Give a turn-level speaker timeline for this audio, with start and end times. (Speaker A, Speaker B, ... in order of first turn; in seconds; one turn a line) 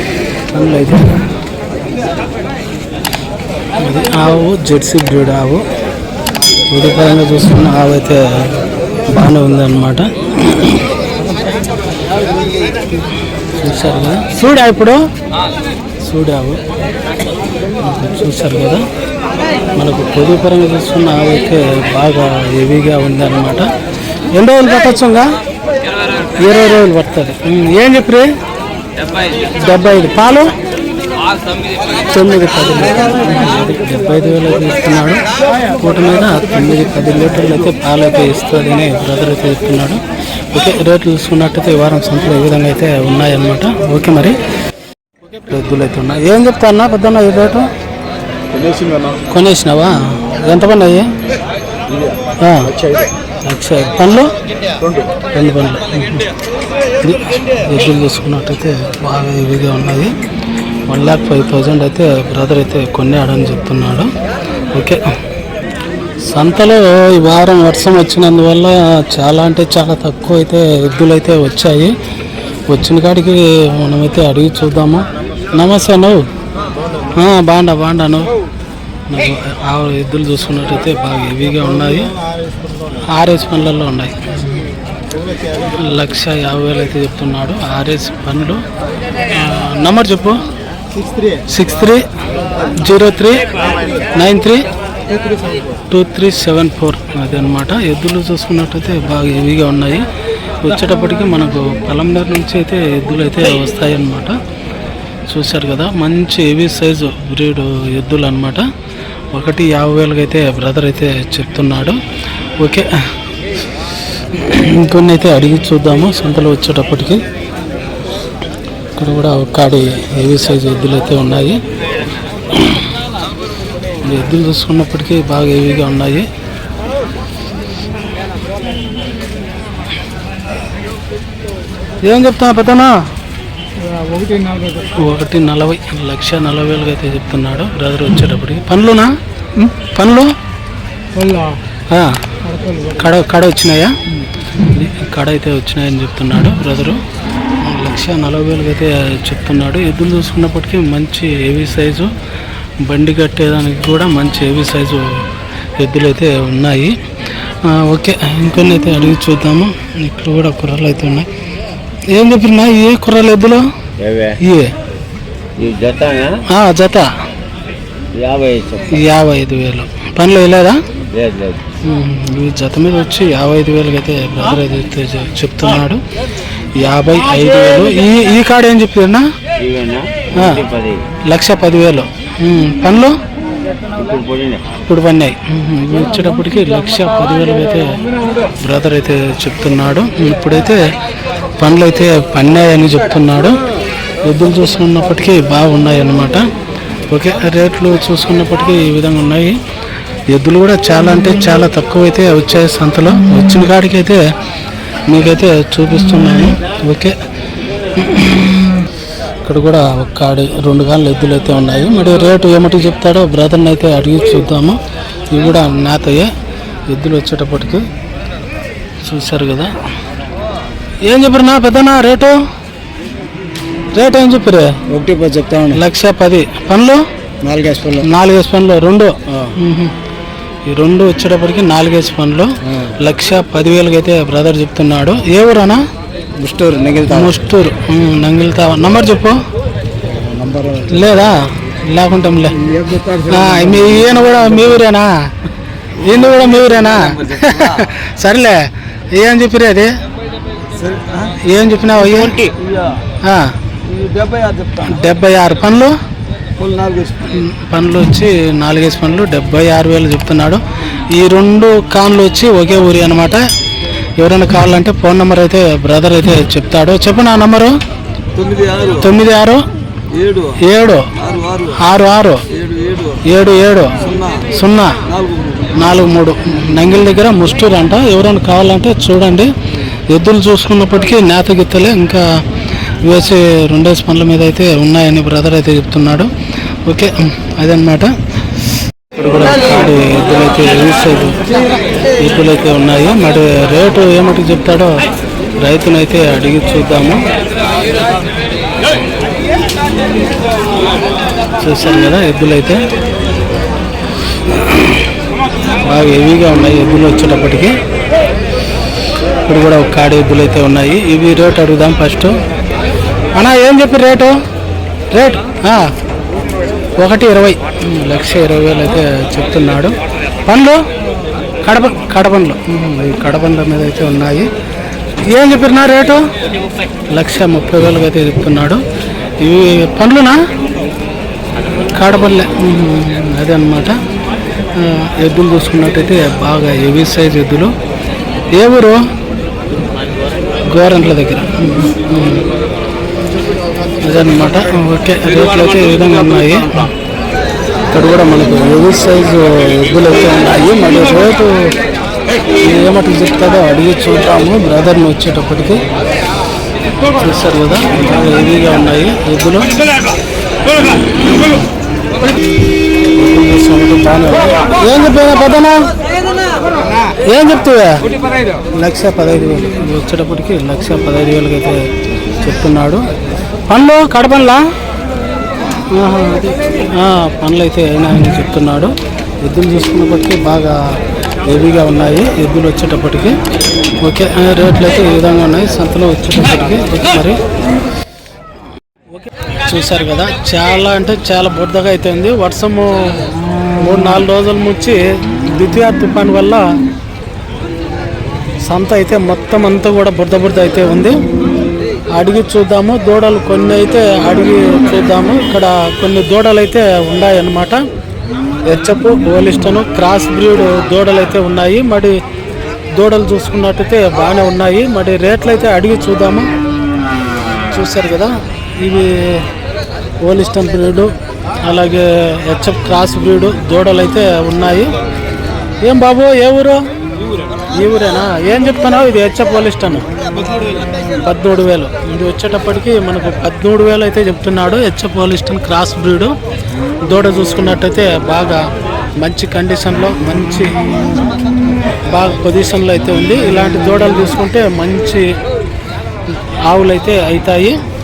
Speaker A: 0.5-1.2
Speaker A: 3.8-5.6
Speaker A: 6.7-8.5
Speaker A: 9.1-10.9
Speaker A: 13.6-15.0
Speaker A: 16.1-16.6
Speaker A: 17.8-18.8
Speaker A: 19.8-23.7
Speaker A: 24.4-25.3
Speaker A: 26.4-28.3
Speaker A: 29.6-30.5
Speaker A: 32.1-40.0
Speaker A: 40.5-44.4
Speaker A: 45.5-47.7
Speaker B: 48.5-49.2
Speaker A: 49.3-51.1
Speaker B: 51.9-53.1
Speaker A: 52.4-52.7
Speaker A: 53.4-54.3
Speaker B: 54.8-55.1
Speaker A: 55.3-56.2
Speaker A: 57.0-60.1
Speaker A: 60.9-64.1
Speaker A: 64.7-65.0
Speaker A: 66.3-71.9
Speaker A: 72.7-75.0
Speaker A: 75.5-76.2
Speaker A: 77.1-78.3
Speaker A: 79.1-82.1
Speaker A: 83.1-84.7
Speaker A: 85.7-88.6
Speaker A: 89.3-90.4
Speaker A: 91.5-92.0
Speaker A: 92.8-93.4
Speaker A: 94.2-94.6
Speaker A: 95.9-100.0
Speaker A: 100.6-104.4
Speaker A: 105.3-108.7
Speaker A: 109.3-112.0
Speaker A: 112.6-112.9
Speaker A: 114.3-117.2
Speaker A: 119.0-121.6
Speaker A: 122.5-122.9
Speaker A: 124.0-126.3
Speaker A: 132.0-132.9
Speaker A: 134.9-140.3
Speaker A: 141.9-142.2
Speaker A: 142.9-143.9
Speaker A: 144.7-147.0
Speaker A: 147.6-152.1
Speaker A: 152.8-155.2
Speaker A: 155.8-156.9
Speaker A: 157.6-161.3
Speaker A: 162.1-163.6
Speaker C: 164.0-164.4
Speaker A: 164.4-164.7
Speaker C: 165.6-166.4
Speaker A: 166.5-167.1
Speaker C: 168.1-169.0
Speaker A: 168.9-170.8
Speaker C: 171.1-171.6
Speaker A: 171.8-176.0
Speaker A: 176.8-179.2
Speaker C: 179.6-181.0
Speaker A: 180.3-180.6
Speaker A: 181.3-183.2
Speaker C: 183.9-184.6
Speaker A: 184.8-188.0
Speaker A: 188.6-190.8
Speaker A: 191.6-193.6
Speaker A: 194.2-196.5
Speaker A: 197.1-199.6
Speaker A: 200.3-204.2
Speaker A: 205.1-207.2
Speaker A: 208.0-208.6
Speaker A: 209.4-214.8
Speaker A: 215.3-216.3
Speaker A: 216.9-217.8
Speaker A: 219.0-219.7
Speaker A: 221.1-222.4
Speaker A: 223.9-224.8
Speaker B: 224.9-225.8
Speaker A: 225.7-227.0
Speaker B: 227.4-228.0
Speaker A: 228.0-229.9
Speaker A: 230.7-235.8
Speaker B: 236.4-237.3
Speaker A: 237.1-239.4
Speaker B: 240.1-241.1
Speaker A: 240.9-242.6
Speaker B: 242.6-244.7
Speaker A: 243.3-245.1
Speaker B: 246.0-247.8
Speaker A: 246.0-248.6
Speaker A: 249.1-249.9
Speaker B: 250.7-251.3
Speaker A: 251.4-252.3
Speaker B: 252.1-253.0
Speaker A: 253.2-253.5
Speaker B: 253.8-254.9
Speaker A: 254.8-255.9
Speaker B: 256.6-257.3
Speaker A: 257.3-260.6
Speaker A: 261.1-263.4
Speaker A: 264.2-267.7
Speaker B: 268.3-269.1
Speaker A: 269.0-269.6
Speaker B: 270.1-270.6
Speaker A: 270.6-271.1
Speaker B: 271.2-271.8
Speaker A: 271.8-272.4
Speaker B: 272.5-273.2
Speaker A: 273.2-274.0
Speaker B: 274.0-274.5
Speaker A: 274.5-275.0
Speaker B: 275.1-275.8
Speaker A: 275.8-279.5
Speaker A: 280.1-282.2
Speaker A: 283.0-286.3
Speaker A: 286.9-288.1
Speaker A: 289.1-291.6
Speaker A: 292.2-295.0
Speaker A: 295.6-297.2
Speaker A: 301.6-302.8
Speaker A: 304.7-305.0
Speaker A: 305.8-307.7
Speaker A: 309.5-312.4
Speaker A: 313.4-314.3
Speaker A: 315.1-315.9
Speaker A: 317.0-319.9
Speaker A: 320.5-320.8
Speaker A: 321.6-324.5
Speaker A: 325.3-326.2
Speaker A: 327.1-328.8
Speaker A: 329.4-330.4
Speaker A: 331.9-334.0
Speaker A: 334.8-337.7
Speaker A: 338.5-339.0
Speaker A: 340.6-342.5
Speaker A: 344.0-346.9
Speaker A: 347.9-351.7
Speaker A: 352.6-355.8
Speaker A: 357.1-359.7
Speaker A: 360.8-361.6
Speaker A: 363.2-365.8
Speaker A: 367.3-368.0
Speaker A: 368.7-371.8
Speaker A: 372.4-373.0
Speaker A: 373.7-374.6
Speaker A: 375.9-380.8
Speaker A: 381.4-383.3
Speaker A: 384.0-387.4
Speaker A: 389.2-393.2
Speaker A: 393.8-395.0
Speaker A: 395.5-396.6
Speaker A: 398.7-401.1
Speaker A: 402.2-407.8
Speaker A: 408.7-412.1
Speaker A: 413.0-416.5
Speaker A: 417.7-419.5
Speaker A: 420.2-421.1
Speaker A: 421.6-424.9
Speaker A: 425.8-426.8
Speaker A: 427.7-430.1
Speaker A: 431.2-436.3
Speaker A: 437.1-438.6
Speaker A: 439.2-440.7
Speaker A: 442.1-445.2
Speaker A: 446.7-447.8